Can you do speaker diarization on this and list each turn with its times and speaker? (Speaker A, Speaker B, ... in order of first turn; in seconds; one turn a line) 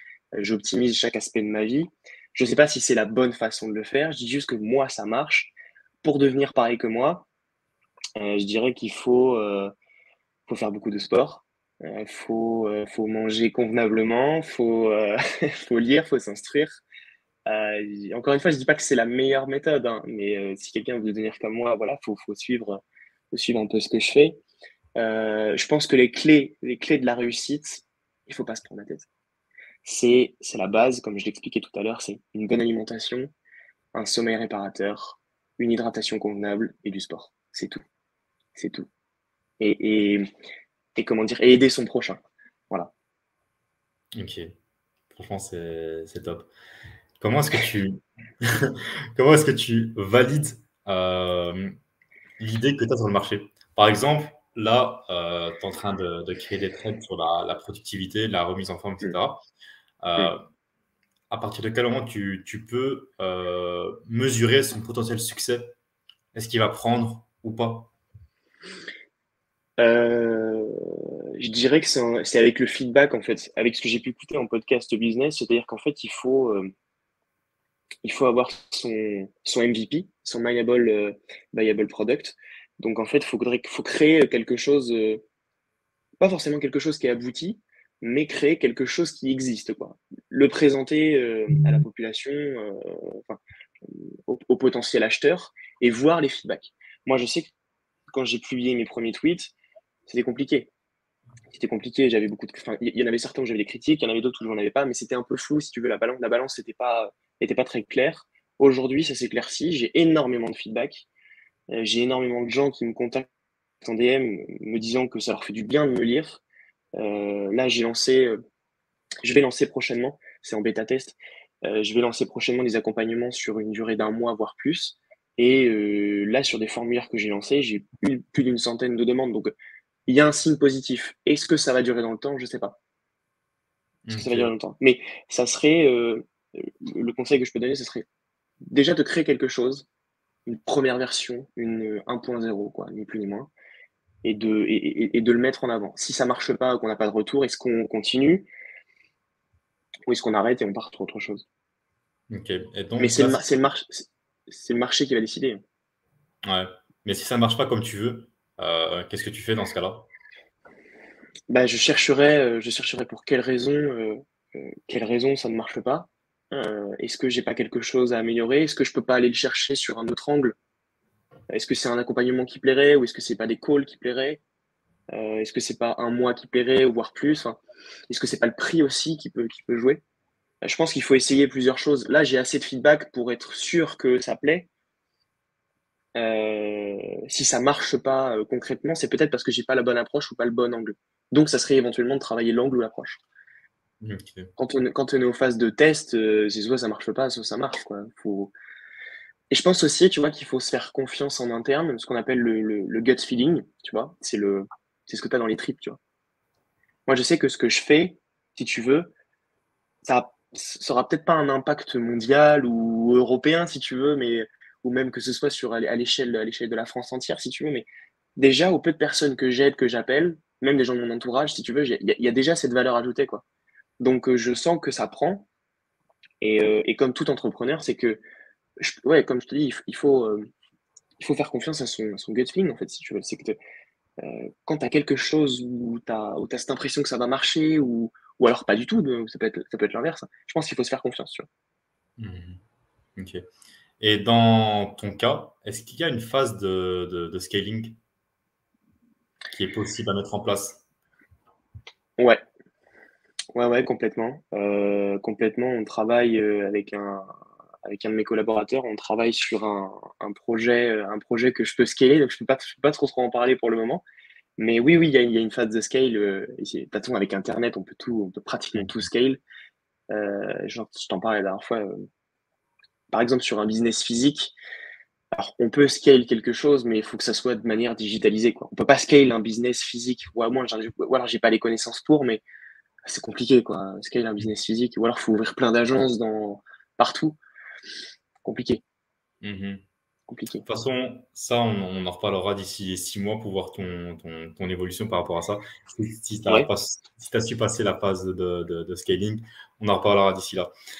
Speaker A: 0.4-7.3
Speaker A: 8.2-9.7
Speaker A: 10.5-16.8
Speaker A: 17.5-24.4
Speaker A: 25.0-29.1
Speaker A: 29.8-33.3
Speaker A: 33.9-37.8
Speaker A: 38.5-38.9
Speaker A: 39.6-40.3
Speaker A: 41.0-42.9
Speaker B: 44.1-44.5
Speaker B: 45.1-46.5
Speaker B: 47.2-51.7
Speaker B: 52.4-59.4
Speaker B: 60.0-60.4
Speaker B: 61.3-65.8
Speaker B: 66.3-67.9
Speaker A: 69.8-70.7
Speaker A: 71.4-76.7
Speaker A: 78.0-85.2
Speaker A: 86.2-97.5
Speaker A: 98.1-99.5
Speaker A: 100.1-100.7
Speaker A: 101.5-111.1
Speaker A: 111.7-113.3
Speaker A: 113.8-116.4
Speaker A: 117.0-118.4
Speaker A: 119.2-129.5
Speaker A: 130.1-132.8
Speaker B: 134.0-134.5
Speaker A: 134.1-138.0
Speaker A: 138.7-139.9
Speaker A: 140.4-143.5
Speaker A: 144.2-148.5
Speaker A: 150.1-151.4
Speaker B: 152.3-153.4
Speaker A: 153.0-155.6
Speaker B: 156.4-160.1
Speaker A: 161.5-170.6
Speaker A: 171.5-174.4
Speaker A: 175.1-180.0
Speaker A: 180.6-184.7
Speaker A: 186.2-193.2
Speaker B: 194.0-194.5
Speaker A: 194.6-198.5
Speaker A: 199.5-206.0
Speaker A: 207.1-209.1
Speaker A: 210.0-223.4
Speaker A: 224.0-225.5
Speaker A: 226.4-228.2
Speaker A: 228.8-230.5
Speaker A: 231.2-233.6
Speaker A: 234.2-241.5
Speaker B: 242.2-242.6
Speaker B: 243.2-243.4
Speaker B: 244.0-248.0
Speaker B: 249.5-250.8
Speaker A: 253.5-257.3
Speaker A: 257.8-264.0
Speaker A: 264.6-269.4
Speaker B: 268.7-269.1
Speaker A: 270.1-271.9
Speaker A: 273.1-274.5
Speaker A: 275.3-282.4
Speaker A: 283.1-287.4
Speaker A: 288.4-288.8
Speaker B: 289.4-289.8
Speaker A: 290.3-290.6
Speaker B: 290.6-300.7